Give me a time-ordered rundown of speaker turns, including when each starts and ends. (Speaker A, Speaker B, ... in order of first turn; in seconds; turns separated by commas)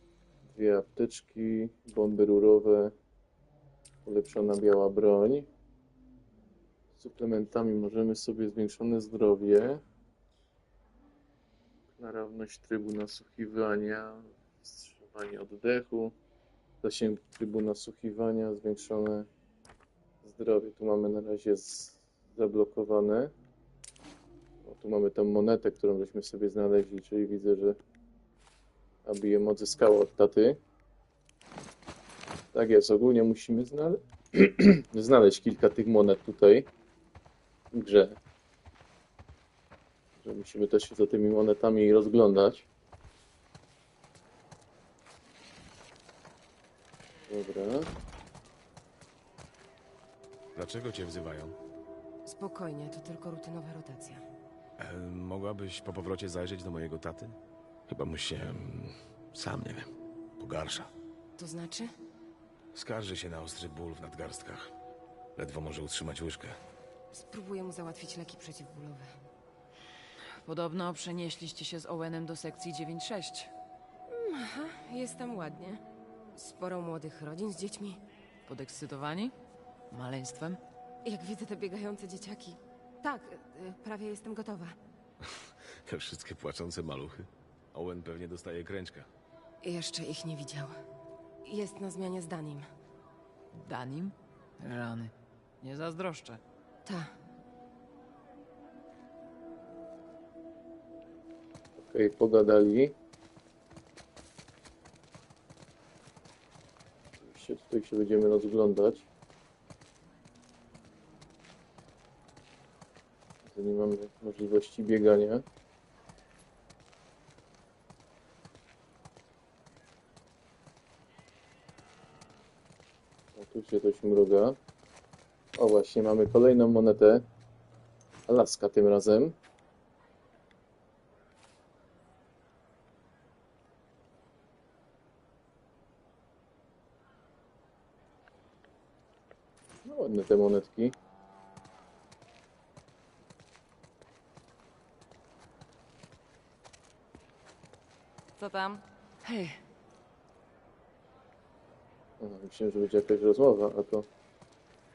Speaker A: 0.5-2.9, Speaker A: 4.0-5.5, Speaker A: 7.0-9.8, Speaker A: 12.0-16.1, Speaker A: 16.8-19.3, Speaker A: 20.2-23.3, Speaker A: 24.6-27.8, Speaker A: 29.1-30.6, Speaker A: 32.5-36.7, Speaker A: 37.7-38.2, Speaker A: 40.2-42.7, Speaker A: 47.3-47.9, Speaker B: 50.5-51.5, Speaker C: 52.2-54.2, Speaker B: 54.8-60.9, Speaker C: 61.4-61.9, Speaker B: 62.7-64.7, Speaker B: 65.3-66.6, Speaker C: 67.1-69.1, Speaker D: 70.3-73.5, Speaker C: 74.1-75.8, Speaker C: 76.3-78.0, Speaker D: 78.5-79.3, Speaker D: 79.9-80.6, Speaker C: 81.0-84.8, Speaker B: 85.2-89.1, Speaker C: 89.6-90.8, Speaker C: 91.4-92.7, Speaker D: 93.5-96.4, Speaker C: 96.8-97.1, Speaker A: 101.8-102.9, Speaker A: 107.2-109.1, Speaker A: 113.5-115.4, Speaker A: 123.3-124.6, Speaker A: 125.6-127.2, Speaker A: 128.3-129.3, Speaker A: 139.8-140.9, Speaker D: 148.4-149.6, Speaker A: 152.2-154.1